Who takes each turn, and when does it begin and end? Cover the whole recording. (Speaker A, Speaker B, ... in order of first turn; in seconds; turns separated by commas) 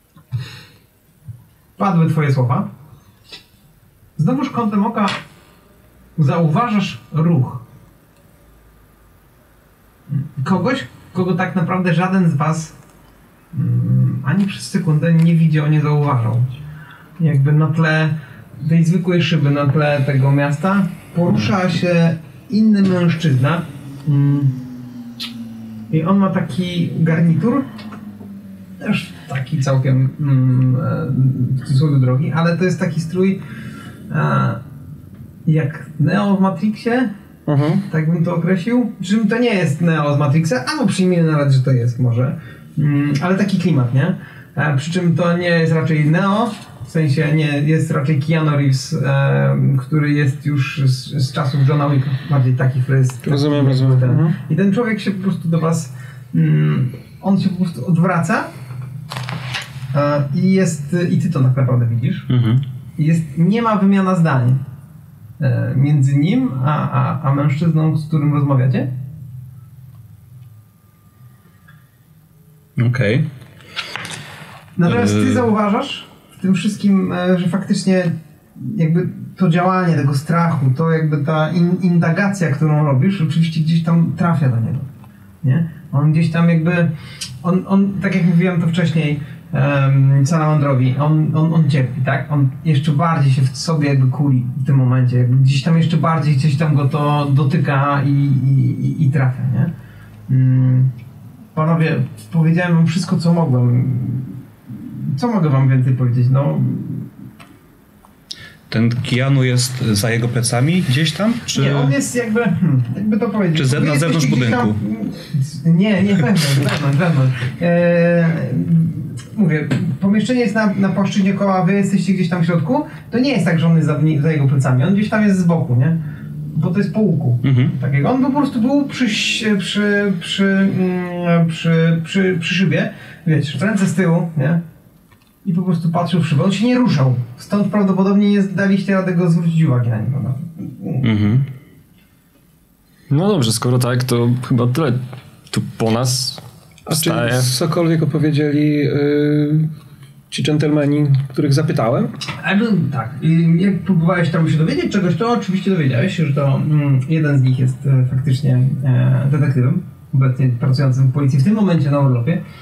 Speaker A: 1.8-2.7, Speaker A: 4.2-5.2, Speaker A: 6.2-7.6, Speaker A: 10.1-12.8, Speaker A: 13.5-16.6, Speaker A: 17.2-24.6, Speaker A: 25.9-27.7, Speaker A: 28.8-33.4, Speaker A: 34.1-34.6, Speaker A: 35.5-37.1, Speaker B: 37.5-37.8, Speaker A: 37.9-58.5, Speaker B: 53.2-54.4, Speaker A: 59.9-62.3, Speaker C: 62.3-62.6, Speaker A: 63.0-64.6, Speaker A: 65.4-68.9, Speaker C: 72.8-73.3, Speaker A: 74.8-84.9, Speaker C: 74.9-75.5, Speaker A: 85.4-99.7, Speaker A: 100.3-100.9, Speaker A: 101.5-107.1, Speaker C: 108.7-112.0, Speaker A: 111.5-126.0, Speaker C: 113.5-114.8, Speaker A: 126.5-134.6, Speaker C: 127.4-127.8, Speaker A: 135.4-141.3, Speaker C: 141.0-141.5, Speaker D: 143.1-147.5, Speaker B: 146.9-149.7, Speaker B: 150.3-152.1, Speaker A: 152.4-162.4